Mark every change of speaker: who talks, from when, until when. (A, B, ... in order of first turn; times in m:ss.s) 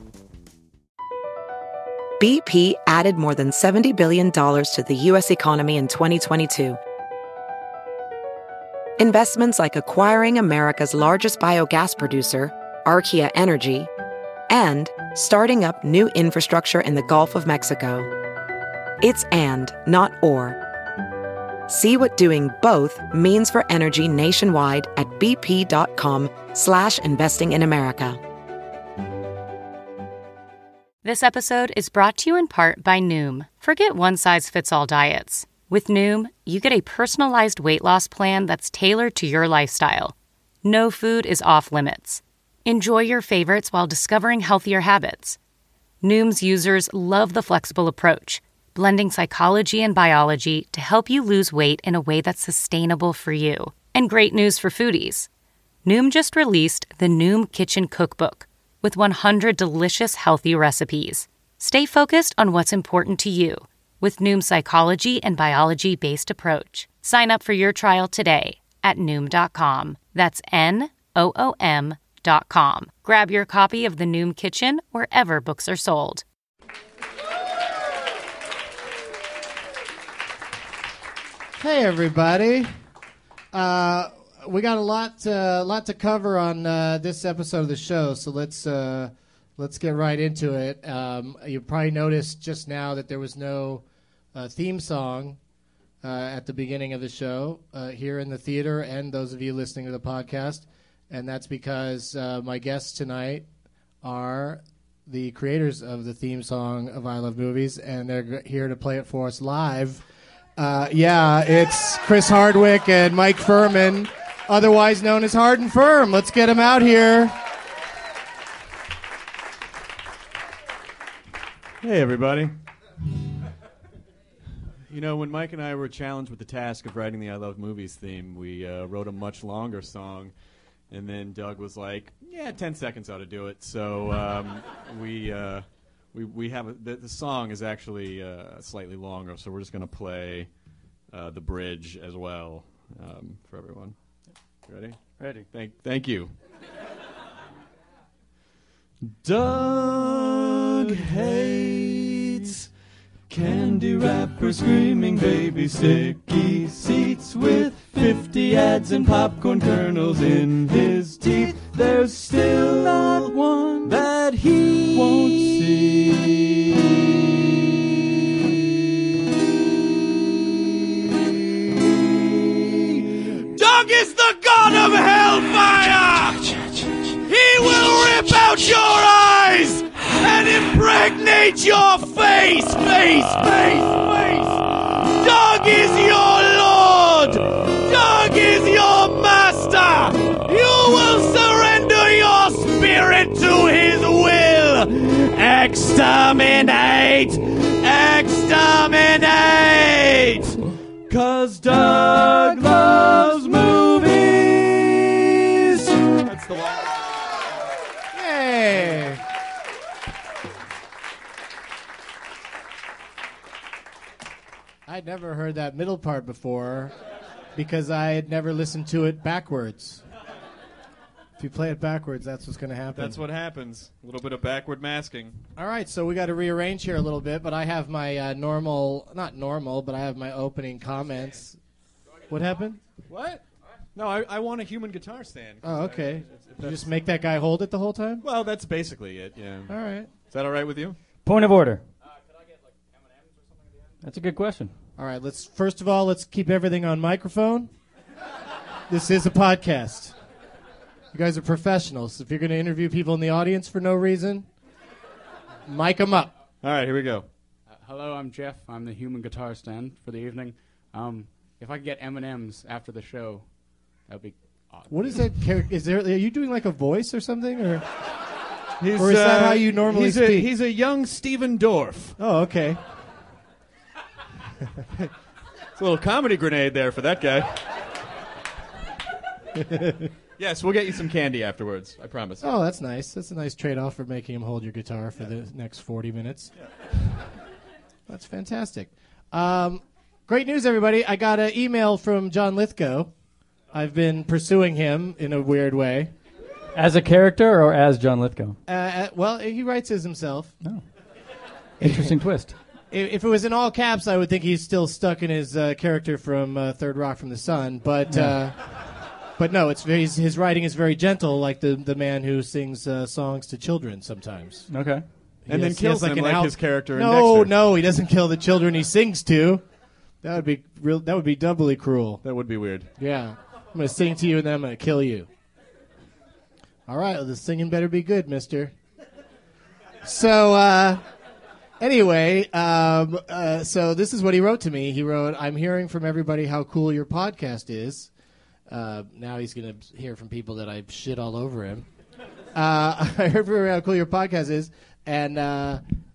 0:02.2-0:06.8 A
0:09.0-0:13.9 A
0:14.5-0:18.1 A
0:19.0-0:20.6 A
0:21.7-0:28.2 A
0:31.0-0:45.4 B
0:46.0-0:55.3 B
0:55.8-1:16.2 B
1:21.6-1:22.8 C
1:23.5-1:33.8 C
1:34.3-1:35.4 C
1:36.0-1:43.5 C
1:44.0-1:50.0 C
1:50.6-1:57.3 C
2:01.8-2:02.6 D
2:04.9-2:10.3 D
2:10.9-2:20.5 D
2:21.1-2:24.0 D
2:24.7-2:25.0 D
2:25.2-2:25.5 E
2:25.5-2:26.3 D
2:29.0-2:32.7 D
2:33.3-2:48.6 D
2:52.1-3:27.1 D
3:28.1-3:29.2 C
3:34.9-3:36.9 C
3:37.6-3:40.0 C
3:41.4-3:43.2 C
3:43.0-3:45.4 D
3:45.6-3:51.6 C
3:52.3-3:52.8 C
3:53.1-3:53.4 D
3:54.0-3:56.9 D
3:55.6-3:58.2 C
3:58.2-4:01.0 D
3:59.7-4:00.1 C
4:01.2-4:01.8 E
4:02.3-4:04.0 F
4:04.0-4:04.7 E
4:05.0-4:07.7 C
4:08.9-4:10.2 C
4:11.1-4:14.5 C
4:15.7-4:16.3 C
4:16.6-4:17.3 D
4:17.7-4:23.5 F
4:24.1-4:25.3 F
4:24.9-4:27.9 C
4:28.8-4:32.2 D
4:29.0-4:30.5 C
4:32.2-4:32.8 C
4:35.8-4:37.6 D
4:39.6-4:40.1 C
4:40.4-4:42.4 D
4:42.4-4:46.5 C
4:48.1-4:53.1 C
4:53.7-4:56.1 C
4:56.8-4:58.6 E
4:58.7-5:00.5 C
5:01.8-5:02.6 E
5:02.9-5:08.8 C
5:08.1-5:08.4 E
5:09.4-5:14.7 C
5:14.7-5:15.0 E
5:15.5-5:17.5 D
5:15.5-5:19.6 C
5:20.2-5:22.2 C
5:22.2-5:22.9 D
5:23.0-5:25.3 C
5:26.9-5:28.7 C
5:30.0-5:31.0 C
5:31.8-5:38.1 C
5:38.7-5:41.9 C
5:42.5-5:45.8 C